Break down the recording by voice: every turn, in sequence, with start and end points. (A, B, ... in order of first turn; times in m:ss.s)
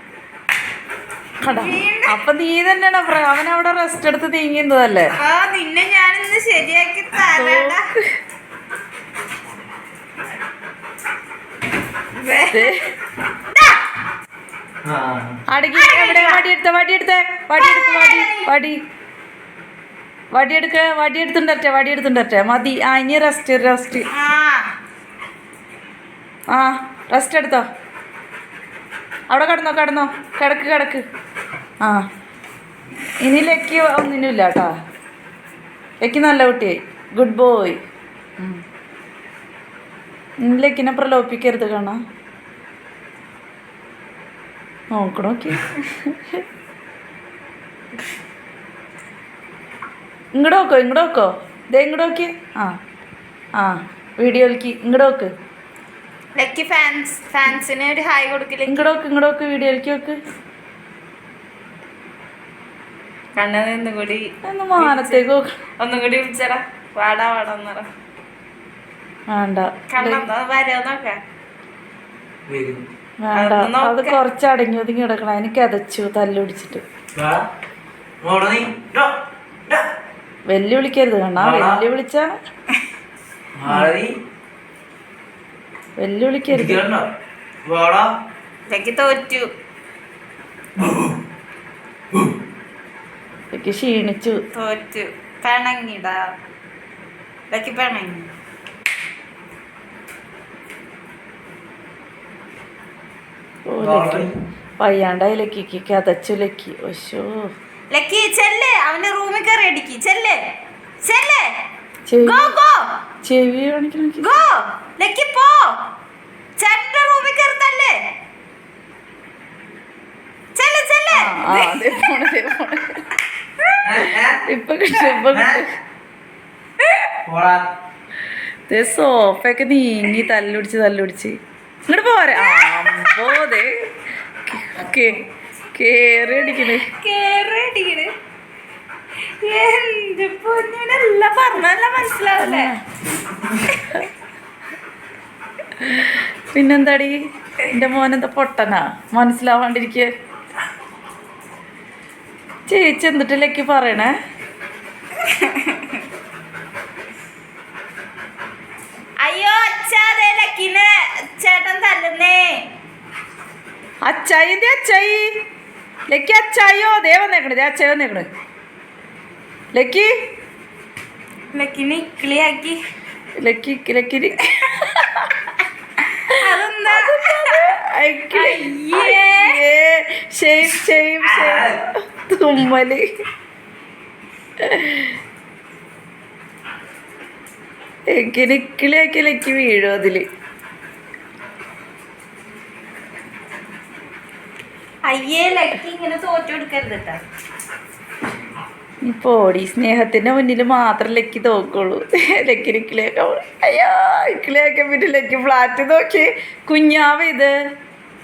0:01.4-0:05.1 A
0:01.4-0:02.2 B
0:05.2-0:07.8 B
0:07.3-0:08.0 A
0:12.2-0:12.8 B
0:12.5-0:12.9 A
0:13.5-0:13.8 B
0:14.8-0:15.4 C
0:15.5-0:18.8 A
0:15.8-0:16.4 B
0:17.6-0:18.5 B
0:20.3-0:24.1 A
0:24.1-0:24.7 B
0:26.5-0:27.6 A
0:29.3-0:31.0 A
0:33.2-0:34.7 A
0:36.0-0:37.8 A
0:40.4-0:42.0 A
0:44.9-0:46.4 A
0:50.4-0:52.8 A
0:53.6-0:55.3 A
0:56.4-0:58.9 B
0:58.7-1:00.2 A
1:03.4-1:05.2 B
1:04.4-1:05.5 A
1:05.8-1:07.9 B
1:09.3-1:10.3 A
1:09.9-1:11.2 B
1:12.5-1:12.9 C
1:13.2-1:16.8 A
1:13.3-1:14.2 B
1:17.1-1:17.4 C
1:18.2-1:19.2 C
1:20.5-1:22.3 A
1:21.4-1:21.8 C
1:23.6-1:24.1 C
1:23.7-1:23.9 A
1:26.0-1:26.8 A
1:26.5-1:27.1 C
1:27.6-1:28.1 C
1:28.7-1:29.5 B
1:30.8-1:31.2 C
1:33.5-1:34.4 A
1:34.5-1:36.3 B
1:37.5-1:38.3 B
1:43.7-1:47.5 A
1:43.8-1:44.3 C
1:47.9-1:50.4 B
1:51.0-1:51.5 B
1:52.1-1:52.5 A
1:52.2-1:52.8 B
1:53.2-1:54.4 A
1:54.2-1:55.8 B
1:56.6-1:58.0 B
2:00.6-2:01.9 B
2:01.1-2:03.0 A
2:03.8-2:04.4 C
2:04.4-2:05.7 A
2:05.3-2:05.6 C
2:07.3-2:07.7 C
2:08.7-2:11.4 A
2:11.9-2:13.8 A
2:12.4-2:13.3 B
2:14.5-2:15.2 A
2:15.8-2:16.9 A
2:16.3-2:18.1 B
2:19.4-2:22.7 B
2:22.3-2:22.8 A
2:25.8-2:30.1 A
2:32.7-2:34.1 A
2:35.2-2:36.0 B
2:39.2-2:42.6 B
2:44.0-2:45.3 A
2:46.1-2:48.3 A
2:49.7-2:50.1 A
2:51.5-2:52.8 B
2:53.4-2:55.3 A
2:56.0-2:57.7 B
2:56.4-3:03.0 A
2:58.3-2:59.6 B
3:01.3-3:01.8 C
3:04.6-3:05.2 A
3:08.1-3:10.2 A
3:15.1-3:17.2 B
3:19.0-3:27.5 A